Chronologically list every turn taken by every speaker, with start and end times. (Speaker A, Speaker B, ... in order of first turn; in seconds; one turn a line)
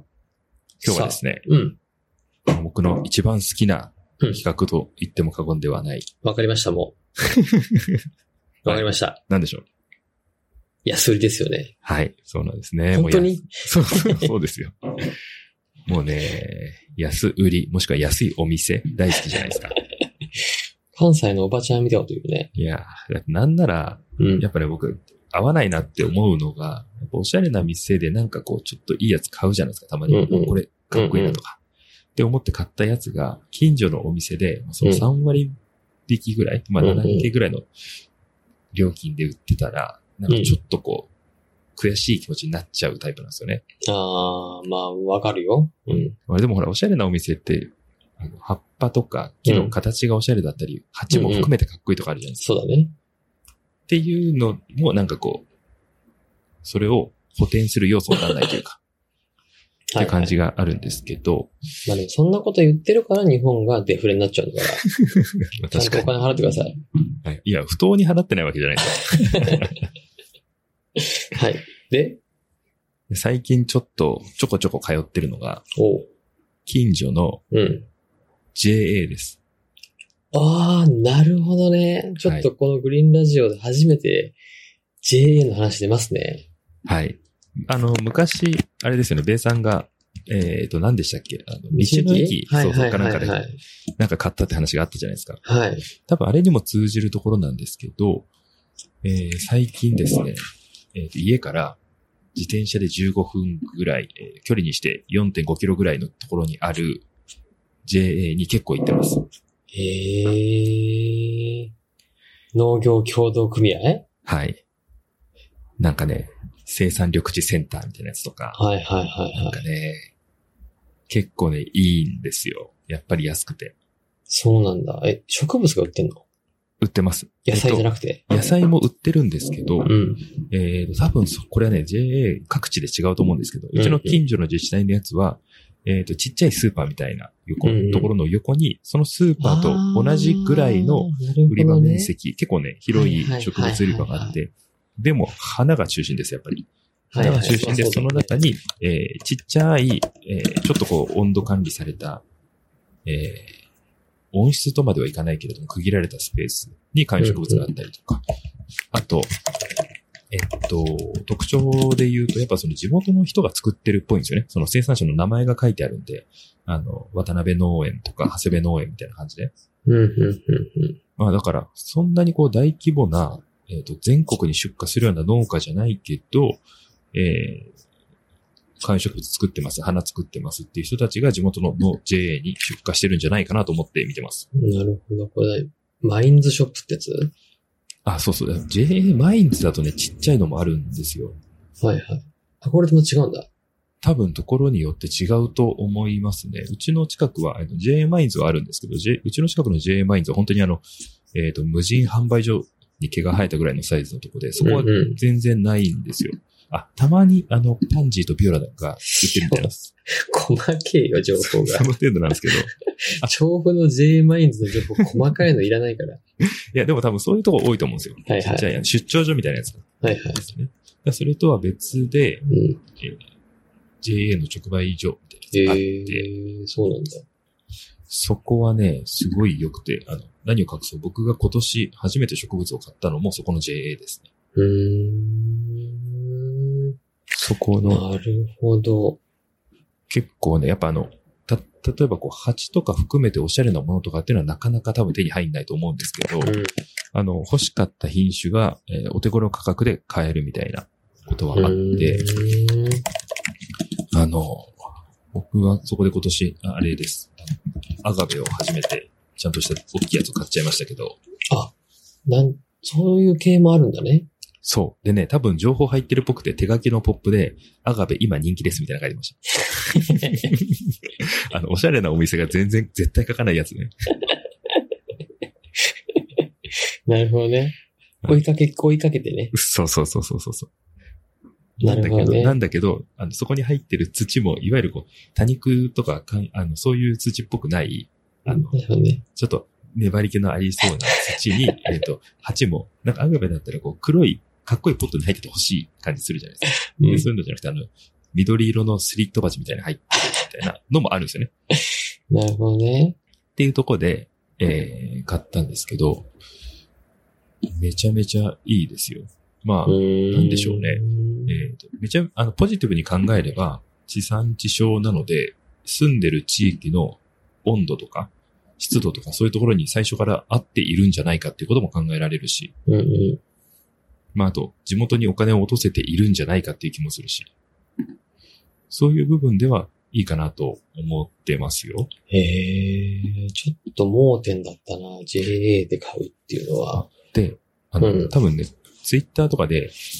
Speaker A: 0.8-1.5
Speaker B: 0.8-1.8
Speaker A: 2.5-6.1
Speaker B: 6.2-7.0
Speaker A: 7.3-7.9
Speaker B: 8.7-9.2
Speaker A: 8.7-9.7
Speaker B: 10.8-11.7
Speaker A: 11.8-14.8
Speaker B: 12.9-14.3
Speaker A: 15.9-19.8
Speaker B: 20.4-22.5
Speaker A: 22.6-31.6
Speaker B: 24.2-24.4
Speaker B: 30.1-31.4
Speaker A: 32.1-35.6
Speaker A: 36.1-37.7
Speaker B: 36.8-37.3
Speaker A: 38.7-41.1
Speaker B: 40.3-40.6
Speaker A: 41.8-43.6
Speaker B: 43.9-46.1
Speaker A: 45.9-52.5
Speaker B: 49.5-49.8
Speaker B: 51.1-51.5
Speaker B: 52.4-52.9
Speaker A: 53.9-55.5
Speaker A: 56.6-58.8
Speaker B: 59.9-60.3
Speaker A: 60.0-61.5
Speaker B: 61.9-64.8
Speaker A: 65.0-66.2
Speaker B: 65.7-66.8
Speaker A: 67.2-69.9
Speaker B: 71.0-72.2
Speaker A: 73.1-75.7
Speaker B: 75.7-76.1
Speaker A: 76.7-77.4
Speaker B: 77.5-77.9
Speaker A: 78.5-79.4
Speaker B: 80.3-84.4
Speaker A: 82.2-82.5
Speaker B: 85.0-86.5
Speaker A: 86.9-93.4
Speaker B: 91.7-93.6
Speaker A: 94.0-95.4
Speaker B: 95.4-95.9
Speaker A: 96.0-98.3
Speaker A: 99.0-100.4
Speaker A: 100.9-101.8
Speaker A: 102.3-107.1
Speaker A: 107.8-109.2
Speaker B: 109.7-111.7
Speaker B: 112.5-114.1
Speaker A: 114.3-114.6
Speaker A: 115.8-118.6
Speaker B: 118.5-119.6
Speaker A: 119.4-120.1
Speaker A: 121.1-123.8
Speaker B: 124.3-126.2
Speaker A: 126.8-129.9
Speaker B: 127.5-128.2
Speaker B: 129.8-130.3
Speaker A: 130.5-152.2
Speaker B: 133.8-134.2
Speaker B: 137.6-138.1
Speaker B: 139.4-142.1
Speaker B: 142.9-144.4
Speaker B: 147.1-148.4
Speaker A: 153.1-153.6
Speaker A: 154.3-158.2
Speaker B: 157.2-157.7
Speaker A: 158.9-159.3
Speaker A: 160.3-169.5
Speaker B: 169.9-171.0
Speaker A: 171.2-177.7
Speaker A: 178.8-184.5
Speaker B: 184.5-187.3
Speaker A: 188.1-191.4
Speaker B: 191.8-193.5
Speaker A: 194.0-209.9
Speaker B: 204.6-205.2
Speaker B: 209.1-211.9
Speaker A: 211.4-213.3
Speaker B: 213.1-216.2
Speaker A: 216.7-222.5
Speaker B: 218.3-218.7
Speaker B: 220.0-220.4
Speaker B: 222.5-222.8
Speaker A: 224.0-226.3
Speaker B: 225.5-227.2
Speaker A: 228.1-234.3
Speaker B: 234.6-237.0
Speaker A: 237.3-238.1
Speaker B: 237.9-239.2
Speaker A: 240.1-246.6
Speaker B: 246.4-246.8
Speaker A: 247.1-252.3
Speaker B: 251.5-253.0
Speaker A: 254.1-261.2
Speaker B: 262.3-264.3
Speaker A: 264.6-273.9
Speaker B: 269.9-270.5
Speaker B: 277.1-277.8
Speaker B: 278.3-279.5
Speaker A: 279.5-280.7
Speaker A: 281.8-288.8
Speaker B: 281.8-282.6
Speaker B: 288.5-289.2
Speaker A: 289.3-301.5
Speaker B: 297.0-297.3
Speaker B: 302.3-303.2
Speaker A: 303.6-306.3
Speaker A: 307.8-322.7
Speaker B: 309.9-311.6
Speaker B: 322.9-323.4
Speaker A: 324.4-327.5
Speaker A: 328.9-332.1
Speaker B: 332.3-337.1
Speaker A: 336.9-339.9
Speaker B: 338.0-338.3